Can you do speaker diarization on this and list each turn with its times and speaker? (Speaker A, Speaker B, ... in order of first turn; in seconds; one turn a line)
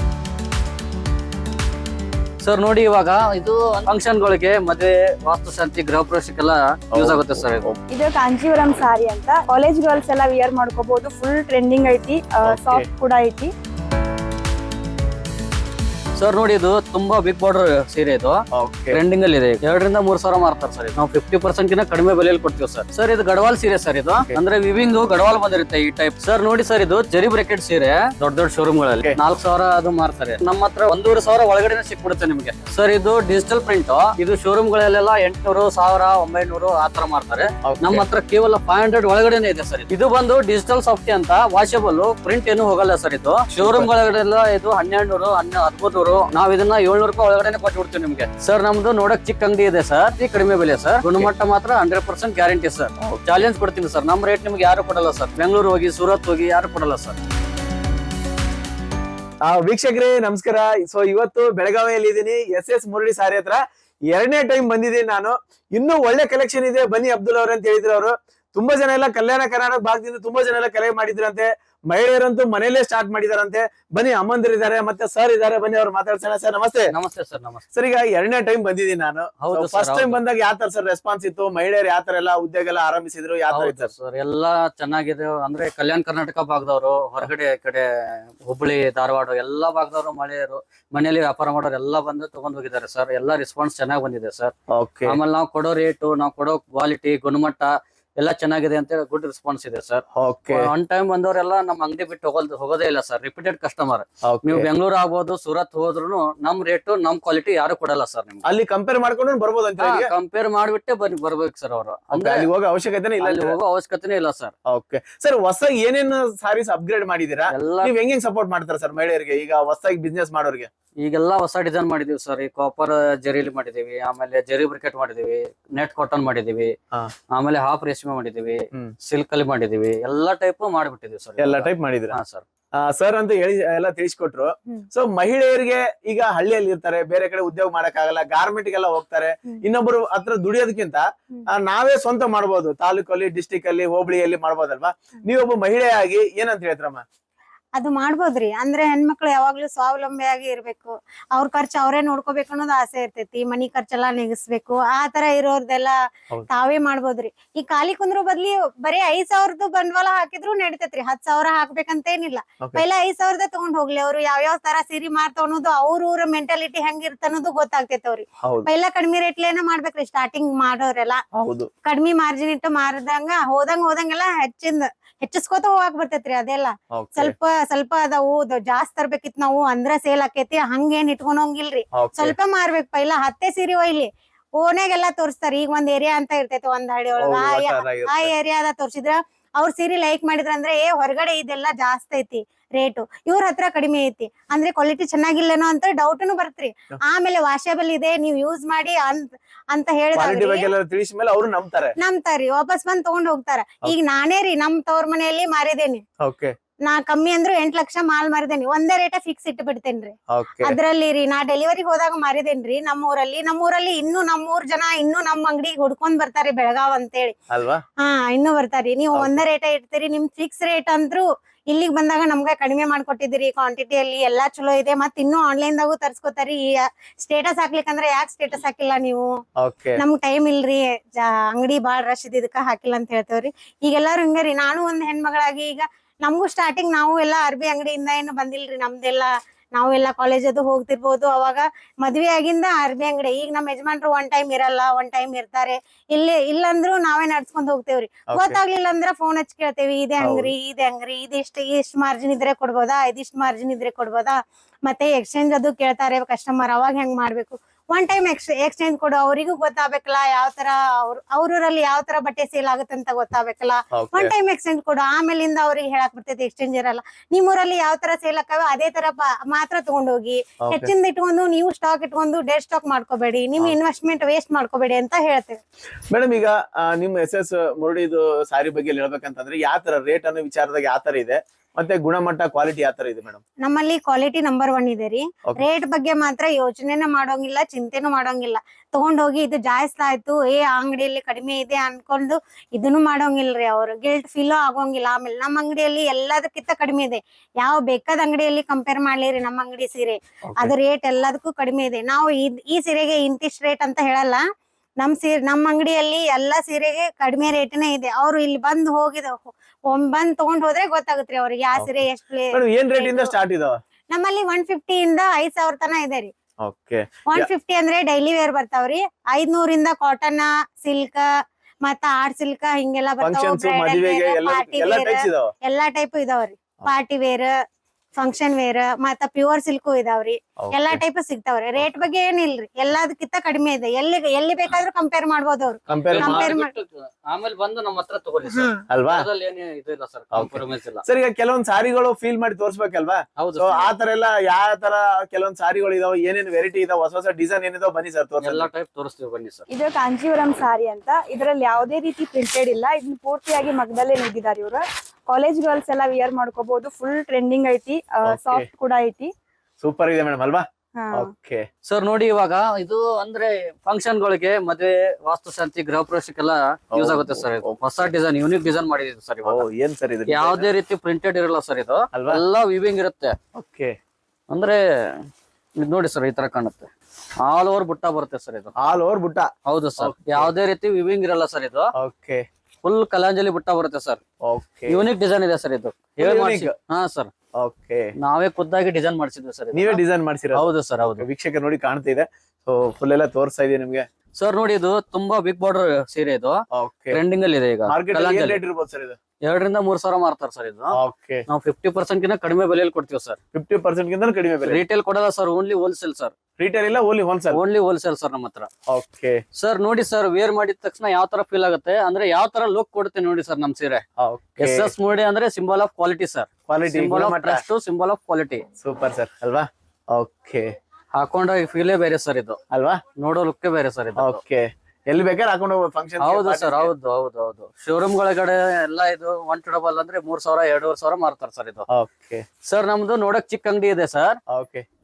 Speaker A: 2.4-7.7
Speaker B: 6.9-7.8
Speaker C: 7.9-13.5
Speaker B: 12.4-12.9
Speaker A: 16.2-57.2
Speaker B: 18.5-19.0
Speaker B: 37.6-38.1
Speaker B: 43.5-43.9
Speaker B: 53.0-53.5
Speaker B: 59.5-76.9
Speaker A: 76.9-77.6
Speaker B: 77.7-83.9
Speaker A: 79.4-80.2
Speaker A: 83.5-87.9
Speaker A: 88.4-94.5
Speaker B: 94.7-95.2
Speaker A: 95.1-108.5
Speaker B: 100.2-100.7
Speaker B: 104.2-104.7
Speaker B: 108.4-110.1
Speaker A: 109.8-112.5
Speaker B: 112.1-113.6
Speaker A: 113.2-114.5
Speaker B: 114.7-120.7
Speaker A: 117.5-117.9
Speaker A: 121.0-126.7
Speaker A: 127.3-132.4
Speaker B: 131.4-132.2
Speaker B: 132.8-147.0
Speaker D: 147.8-155.9
Speaker D: 156.5-171.2
Speaker B: 168.4-168.7
Speaker B: 171.3-171.7
Speaker D: 171.8-200.7
Speaker B: 176.9-177.3
Speaker B: 182.0-182.4
Speaker B: 187.2-188.3
Speaker B: 200.2-201.9
Speaker D: 202.0-206.0
Speaker B: 206.2-206.6
Speaker D: 206.9-217.3
Speaker B: 210.3-210.8
Speaker B: 217.5-217.8
Speaker D: 218.0-229.4
Speaker B: 219.1-219.4
Speaker B: 229.6-230.0
Speaker D: 230.0-275.6
Speaker B: 248.3-248.6
Speaker B: 250.2-250.5
Speaker B: 263.9-264.3
Speaker B: 270.6-270.9
Speaker B: 276.1-283.4
Speaker D: 283.6-304.4
Speaker D: 305.0-313.4
Speaker B: 311.8-313.8
Speaker D: 314.1-316.3
Speaker B: 316.6-317.5
Speaker D: 317.3-321.3
Speaker D: 321.8-327.5
Speaker B: 323.2-325.5
Speaker D: 328.2-336.7
Speaker B: 330.6-331.0
Speaker B: 335.9-336.5
Speaker A: 336.1-341.0
Speaker B: 338.9-339.3
Speaker B: 340.3-348.7
Speaker A: 343.4-343.9
Speaker A: 348.4-349.6
Speaker C: 349.7-359.3
Speaker B: 358.2-358.7
Speaker B: 359.8-361.7
Speaker C: 361.0-361.3
Speaker A: 361.8-369.6
Speaker B: 366.9-367.8
Speaker B: 369.4-370.7
Speaker A: 370.3-373.4
Speaker B: 372.1-372.4
Speaker B: 373.6-373.9
Speaker A: 374.5-375.3
Speaker A: 375.8-378.7
Speaker B: 378.8-380.5
Speaker A: 379.7-381.9
Speaker B: 382.0-382.4
Speaker A: 382.8-384.2
Speaker B: 384.4-385.0
Speaker A: 384.9-387.3
Speaker B: 386.2-386.7
Speaker B: 387.6-388.1
Speaker A: 388.2-390.0
Speaker B: 389.7-394.1
Speaker A: 390.5-391.2
Speaker A: 394.4-396.6
Speaker B: 396.7-397.2
Speaker A: 397.1-398.6
Speaker B: 397.9-399.2
Speaker A: 399.4-401.0
Speaker B: 400.9-401.4
Speaker A: 401.5-403.4
Speaker B: 403.5-404.8
Speaker A: 404.7-406.3
Speaker B: 406.6-407.6
Speaker A: 407.5-408.7
Speaker B: 408.9-409.4
Speaker A: 409.6-414.0
Speaker B: 414.2-414.9
Speaker A: 414.6-418.6
Speaker B: 416.7-417.6
Speaker B: 418.8-420.7
Speaker A: 421.1-422.6
Speaker B: 422.7-423.0
Speaker A: 423.2-424.4
Speaker B: 424.2-426.9
Speaker A: 426.2-431.9
Speaker B: 431.9-432.4
Speaker A: 432.7-434.4
Speaker B: 434.5-434.9